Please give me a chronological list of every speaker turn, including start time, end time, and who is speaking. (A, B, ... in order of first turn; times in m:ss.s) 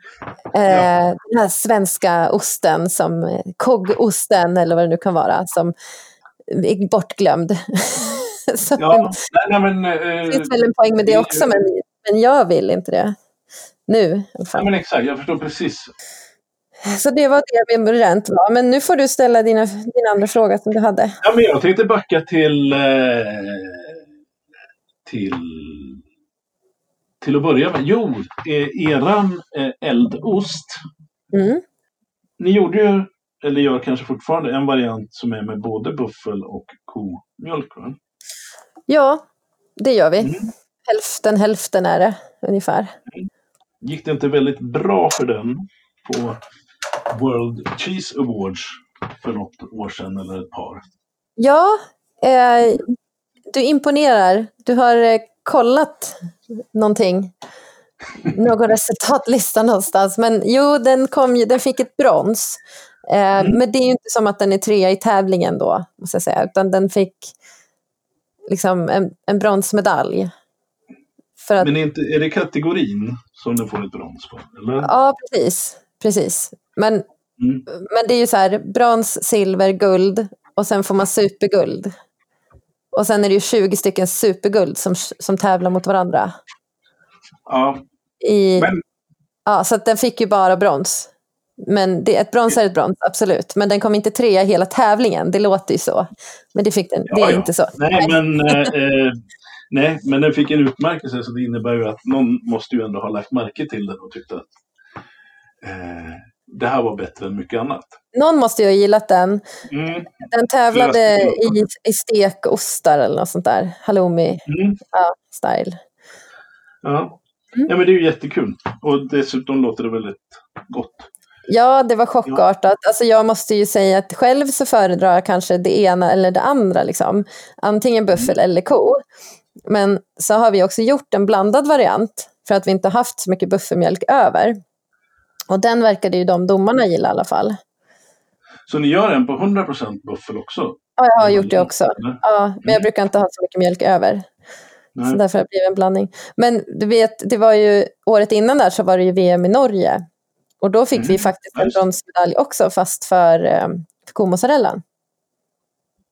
0:00.5-0:05.7 A
0:06.5-0:09.2 A
0:08.8-0:11.6 B
0:10.3-0:13.2 A
0:13.9-0:14.7 A
0:14.5-0:15.9 B
0:16.8-0:21.2 A
0:21.2-0:24.0 B
0:25.0-0:26.0 B
0:27.2-0:30.8 B
0:31.3-0:31.6 A
0:32.4-0:38.0 B
0:38.9-0:39.2 A
0:39.8-0:43.0 A
0:40.2-0:40.5 B
0:43.8-0:46.4 B
0:47.1-0:50.8 B
0:51.4-0:52.9 A
0:53.5-0:57.3 A
0:58.3-1:07.3 A
1:08.5-1:10.3 A
1:11.4-1:11.7 A
1:11.6-1:14.9 B
1:14.8-1:17.0 A
1:17.4-1:17.6 B
1:17.7-1:21.9 A
1:22.9-1:26.3 A
1:27.5-1:27.8 B
1:28.2-1:28.7 A
1:29.5-1:31.1 A
1:31.6-1:38.7 A
1:37.1-1:44.5 B
1:45.6-1:48.0 B
1:48.1-1:49.4 A
1:49.7-1:50.1 B
1:50.2-1:55.8 A
1:50.7-1:51.6 B
1:54.5-1:54.8 B
1:56.8-1:57.2 B
1:57.7-2:01.1 B
2:01.5-2:09.0 A
2:09.7-2:14.6 A
2:15.5-2:17.6 A
2:18.7-2:22.9 B
2:21.0-2:24.3 A
2:25.0-2:25.2 B
2:25.1-2:30.0 A
2:30.6-2:34.8 A
2:31.0-2:31.8 B